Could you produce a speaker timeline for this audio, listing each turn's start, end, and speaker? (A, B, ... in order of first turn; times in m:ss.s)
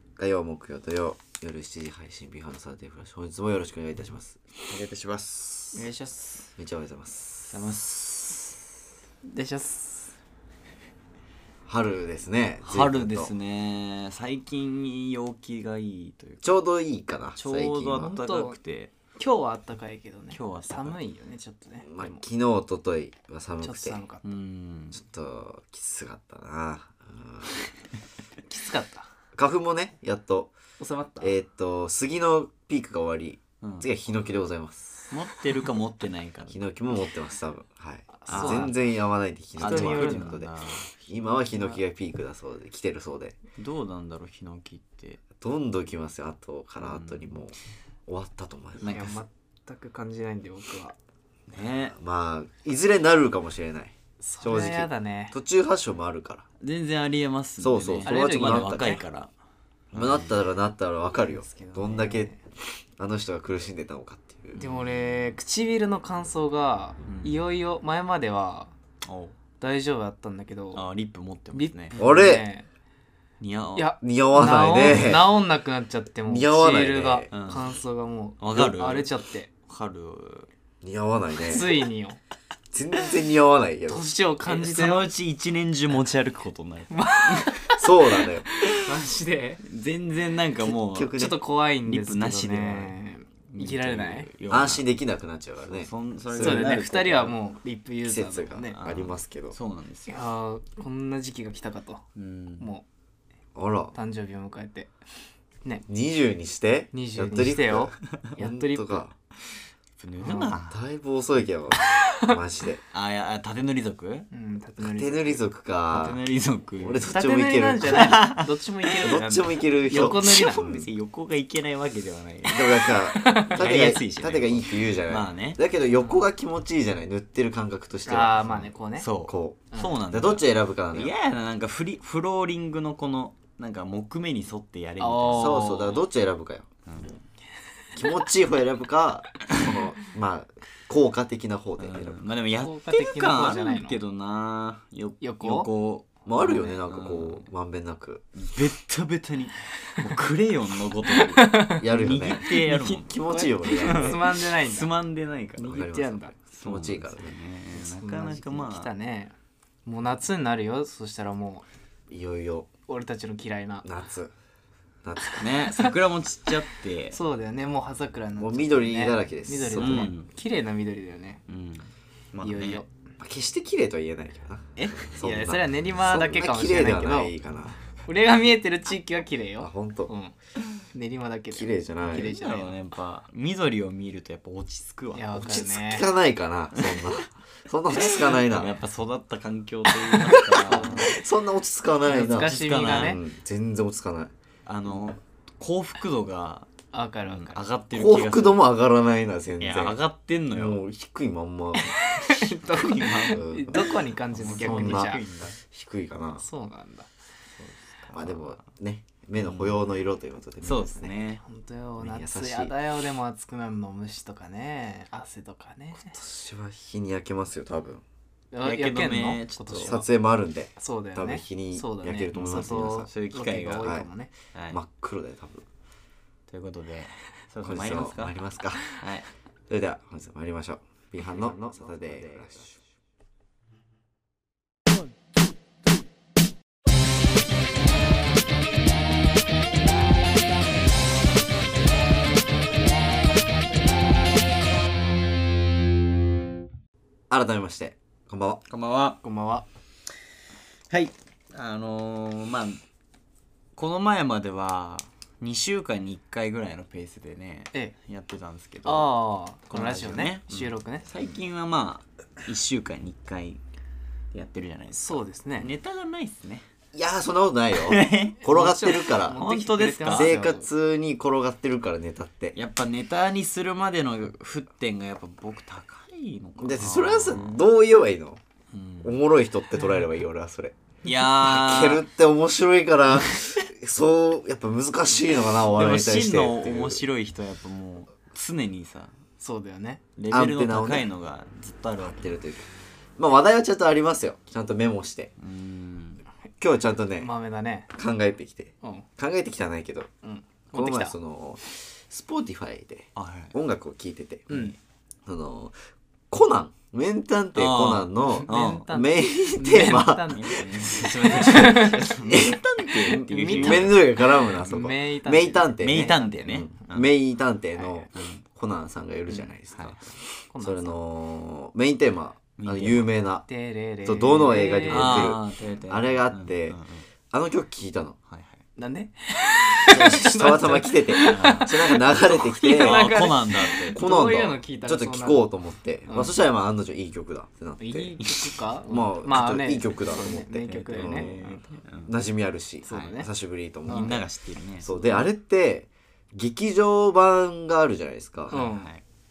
0:00.2-0:04.4 A
0:04.7-0:05.9 B
0:05.7-0:06.5 C
0:06.6-0:07.8 A
0:07.5-0:08.6 B
0:09.3-0:10.2 C
0:11.7-0:13.3 A
0:12.6-0:16.5 B
0:16.4-0:18.1 A
0:17.4-0:18.9 B
0:18.0-0:18.6 C
0:19.2-0:22.2 C
0:20.3-0:21.0 B
0:21.8-0:24.0 A
0:23.6-0:24.2 C
0:24.2-0:25.0 B
0:24.9-0:27.6 A
0:28.5-0:29.1 C
0:29.4-0:30.5 A
0:30.8-0:31.3 C
0:31.2-0:35.1 A
0:33.6-0:33.9 B
0:35.1-0:36.6 B
0:36.5-0:43.4 A
0:38.1-0:38.8 C
0:38.3-0:38.8 B
0:39.6-0:40.9 B
0:39.6-0:40.4 C
0:41.5-0:41.8 C
0:43.6-0:45.2 B
0:45.4-0:47.6 A
0:46.8-0:47.3 B
0:48.1-0:49.0 A
0:48.8-0:49.2 B
0:48.9-0:51.0 C
0:51.5-0:52.0 B
0:51.9-0:56.4 A
0:54.2-0:55.4 C
0:56.6-0:59.3 B
0:57.6-0:59.0 A
0:58.0-0:59.0 C
0:59.9-1:00.4 B
0:59.9-1:02.3 A
1:01.2-1:02.4 C
1:03.0-1:04.6 A
1:04.6-1:05.3 B
1:04.6-1:08.7 C
1:07.1-1:07.4 B
1:09.0-1:09.4 B
1:09.6-1:10.8 C
1:10.7-1:12.0 B
1:11.5-1:12.7 C
1:12.0-1:12.5 A
1:13.4-1:13.9 B
1:13.8-1:19.5 C
1:14.0-1:15.4 A
1:16.3-1:17.3 A
1:17.3-1:17.7 B
1:18.4-1:19.1 B
1:19.7-1:20.5 B
1:20.8-1:21.7 A
1:21.4-1:22.2 C
1:22.7-1:24.0 A
1:23.9-1:25.1 C
1:24.5-1:27.6 B
1:26.9-1:29.6 C
1:27.8-1:28.5 A
1:29.6-1:31.2 B
1:30.7-1:31.4 A
1:31.2-1:34.3 C
1:31.8-1:33.0 B
1:33.5-1:34.8 B
1:34.5-1:37.1 A
1:35.7-1:37.4 B
1:36.4-1:38.8 C
1:38.0-1:39.6 A
1:38.7-1:40.2 B
1:40.1-1:42.0 C
1:42.2-1:42.7 B
1:42.6-1:42.8 C
1:43.6-1:44.0 A
1:43.9-1:44.9 C
1:45.9-1:49.1 A
1:46.9-1:49.1 C
1:50.0-1:50.8 B
1:50.2-1:52.8 A
1:50.2-1:50.5 C
1:51.9-1:52.4 C
1:52.9-1:54.3 B
1:54.3-1:55.4 C
1:54.8-1:56.2 A
1:55.9-1:57.1 B
1:56.8-1:58.2 A
1:57.1-2:00.8 C
1:57.9-1:59.2 B
1:59.0-2:00.8 A
1:59.9-2:05.6 B
2:02.5-2:08.7 A
2:03.2-2:04.0 C
2:08.1-2:09.1 C
2:09.0-2:16.0 B
2:09.3-2:11.1 A
2:15.0-2:16.0 C
2:15.3-2:16.7 A
2:16.9-2:17.2 B
2:18.0-2:22.2 A
2:21.8-2:27.5 B
2:22.6-2:24.0 C
2:25.2-2:25.7 C
2:26.2-2:28.2 A
2:28.4-2:33.2 B
2:31.2-2:34.9 C
2:31.8-2:34.3 A
2:33.7-2:35.8 B
2:35.6-2:36.4 C
2:35.6-2:37.4 A
2:36.6-2:38.9 B
2:37.8-2:41.6 C
2:42.1-2:42.7 A
2:42.9-2:43.9 C
2:43.8-2:44.3 A
2:45.0-2:45.5 A
2:45.2-2:45.9 C
2:45.4-2:47.2 B
2:47.1-2:51.4 C
2:48.4-2:50.1 A
2:49.8-2:50.3 B
2:51.5-2:52.8 B
2:52.4-2:52.9 C
2:53.2-2:57.8 A
2:54.8-2:57.3 C
2:58.1-3:00.3 C
2:59.6-3:00.1 A
3:00.9-3:02.8 C
3:01.5-3:02.4 A
3:02.1-3:05.4 B
3:05.1-3:06.1 C
3:05.4-3:08.7 A
3:06.8-3:07.1 B
3:07.9-3:11.1 B
3:10.1-3:14.3 A
3:10.7-3:11.2 C
3:12.0-3:13.2 C
3:12.2-3:13.2 B
3:14.7-3:16.7 B
3:16.9-3:17.7 C
3:17.2-3:18.6 B
3:17.9-3:20.0 A
3:19.6-3:20.8 B
3:20.5-3:22.0 A
3:21.8-3:25.2 C
3:22.4-3:25.6 B
3:23.3-3:26.4 A
3:26.4-3:27.1 C
3:27.6-3:28.6 B
3:28.1-3:31.1 A
3:29.4-3:29.8 B
3:30.6-3:31.4 B
3:31.4-3:36.2 C
3:32.0-3:32.8 A
3:36.0-3:38.0 A
3:38.5-3:40.1 C
3:38.6-3:40.0 B
3:39.8-3:43.1 A
3:40.8-3:44.3 C
3:42.3-3:43.9 B
3:43.8-3:44.1 A
3:44.5-3:44.8 B
3:44.7-3:45.7 A
3:46.5-3:48.4 B
3:47.6-3:48.8 A
3:48.9-3:49.3 B
3:49.7-3:52.8 A
4:07.3-4:08.6 A
4:08.7-4:09.2 B
4:09.2-4:09.7 C
4:10.9-4:12.8 B
4:13.8-4:19.1 B
4:18.8-4:21.1 C
4:19.7-4:23.6 B
4:24.3-4:26.6 B
4:25.0-4:25.7 C
4:26.9-4:29.4 A
4:27.8-4:28.4 B
4:28.4-4:30.7 C
4:29.1-4:30.3 B
4:30.1-4:32.6 A
4:32.6-4:37.6 B
4:36.6-4:38.4 A
4:38.7-4:39.1 B
4:39.0-4:40.8 A
4:41.0-4:42.0 B
4:41.4-4:47.0 A
4:45.7-4:49.1 B
4:49.4-4:50.0 C
4:50.2-4:52.4 B
4:50.3-4:51.1 A
4:52.0-4:55.3 A
4:55.4-4:56.2 B
4:56.6-4:57.3 A
4:57.2-4:57.9 C
4:57.9-5:00.1 A
5:00.2-5:01.2 C
5:00.7-5:04.8 A
5:03.2-5:03.6 B
5:04.5-5:04.8 C
5:05.3-5:05.8 A
5:06.3-5:20.0 A
5:07.6-5:08.9 B
5:08.4-5:12.2 C
5:09.8-5:14.8 B
5:13.0-5:16.5 C
5:15.8-5:17.1 B
5:17.8-5:18.1 C
5:18.1-5:18.4 B
5:19.7-5:20.1 B
5:20.5-5:21.0 C
5:20.6-5:23.5 A
5:22.6-5:23.1 B
5:23.5-5:25.4 C
5:24.0-5:28.2 A
5:24.9-5:27.0 B
5:28.3-5:28.6 B
5:28.8-5:35.5 C
5:29.9-5:33.2 A
5:30.4-5:31.7 B
5:32.5-5:34.0 B
5:33.9-5:38.2 A
5:36.1-5:36.4 C
5:37.8-5:41.3 C
5:38.2-5:38.5 B
5:38.9-5:44.3 A
5:40.6-5:42.1 B
5:42.8-5:43.3 C
5:43.9-5:45.0 B
5:44.8-5:48.5 A
5:48.5-5:49.0 B
5:48.5-5:48.9 C